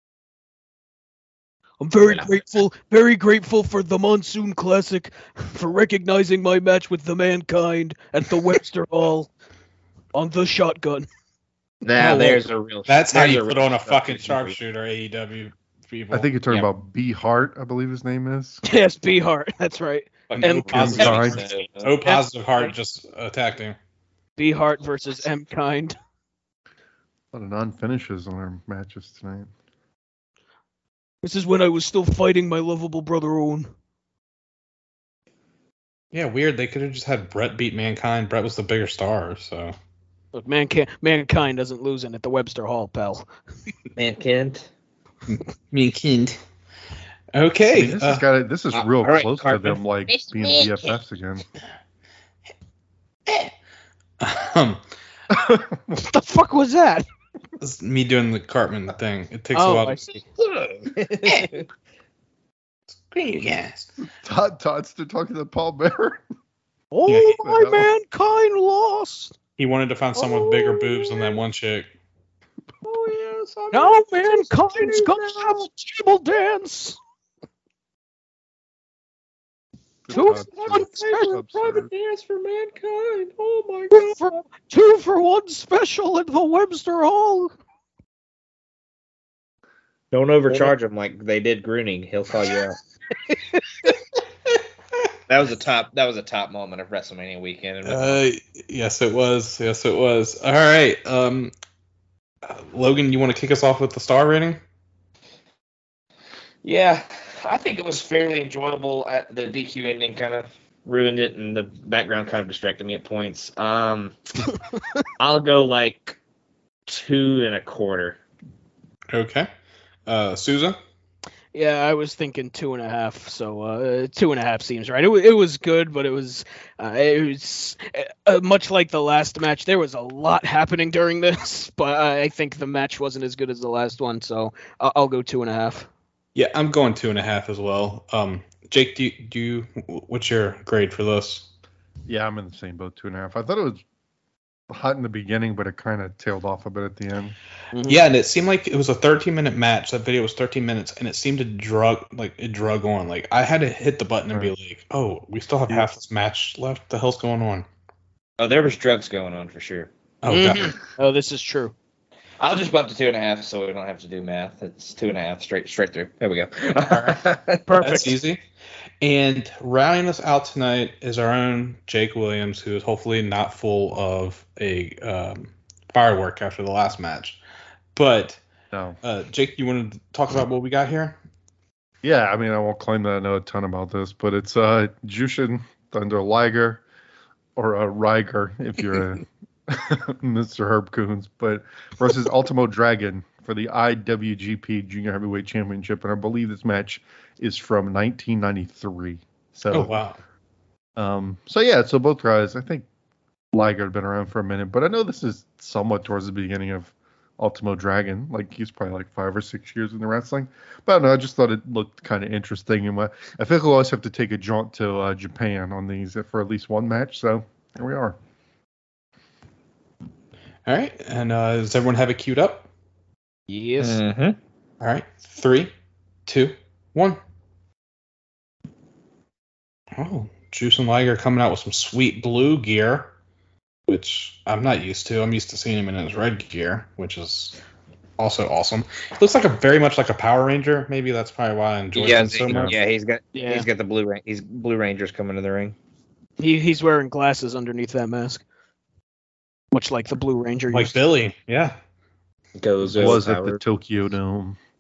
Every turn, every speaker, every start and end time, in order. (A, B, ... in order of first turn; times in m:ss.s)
0:01.8-0:09.3 A
0:02.0-0:02.3 B
0:10.1-0:11.1 A
0:11.8-0:14.6 B
0:12.0-0:16.3 C
0:16.1-0:18.6 D
0:18.6-0:21.3 A
0:20.3-0:21.9 B
0:20.4-0:23.8 C
0:20.7-0:21.4 D
0:22.0-0:22.7 A
0:24.4-0:25.9 A
0:27.3-0:29.5 D
0:31.2-0:33.7 A
0:36.1-0:39.7 C
0:40.3-0:43.3 A
0:44.0-0:44.7 B
0:45.3-0:46.4 C
0:47.3-0:48.2 C
0:47.7-0:51.4 D
0:48.7-0:51.0 B
0:54.2-0:54.8 C
0:55.3-0:56.0 D
0:55.9-0:57.0 A
0:57.6-1:00.0 C
0:59.5-1:00.2 A
1:00.4-1:01.7 B
1:02.9-1:03.9 C
1:04.2-1:06.2 D
1:06.9-1:09.3 A
1:07.1-1:07.4 C
1:07.4-1:07.9 D
1:09.6-1:11.9 C
1:10.2-1:11.2 A
1:12.8-1:15.7 B
1:13.7-1:17.0 A
1:20.1-1:21.9 D
1:20.1-1:21.4 A
1:20.1-1:24.2 B
1:23.9-1:27.5 A
1:30.1-1:32.8 B
1:33.2-1:33.9 A
1:35.3-1:38.2 B
1:37.8-1:41.5 C
1:42.4-1:44.6 C
1:46.6-1:54.2 B
1:55.2-1:56.2 B
1:56.9-1:58.2 B
1:59.1-1:59.5 C
2:00.1-2:00.8 C
2:01.5-2:15.9 A
2:16.3-2:21.5 C
2:22.1-2:23.8 D
2:24.7-2:27.3 D
2:27.7-2:28.0 A
2:27.8-2:37.6 C
2:38.4-2:39.9 B
2:40.2-2:40.8 C
2:40.3-2:41.7 A
2:42.4-2:48.0 B
2:47.6-2:48.1 A
2:47.8-2:48.4 C
2:49.0-2:57.4 C
2:57.9-2:58.4 C
2:58.7-2:59.0 D
2:59.0-3:01.2 C
3:02.0-3:06.8 D
3:07.6-3:20.0 D
3:19.7-3:20.2 C
3:21.0-3:22.8 D
3:23.5-3:38.2 D
3:40.6-3:42.7 C
3:43.5-3:44.0 A
3:43.8-3:44.4 B
3:44.8-3:45.7 C
3:46.2-3:47.2 C
3:49.9-3:53.1 C
3:53.9-3:57.6 C
3:58.2-4:02.7 C
4:01.9-4:05.8 B
4:03.3-4:03.6 A
4:06.4-4:08.4 A
4:09.7-4:11.0 A
4:10.7-4:11.8 C
4:12.6-4:13.6 B
4:12.9-4:14.6 D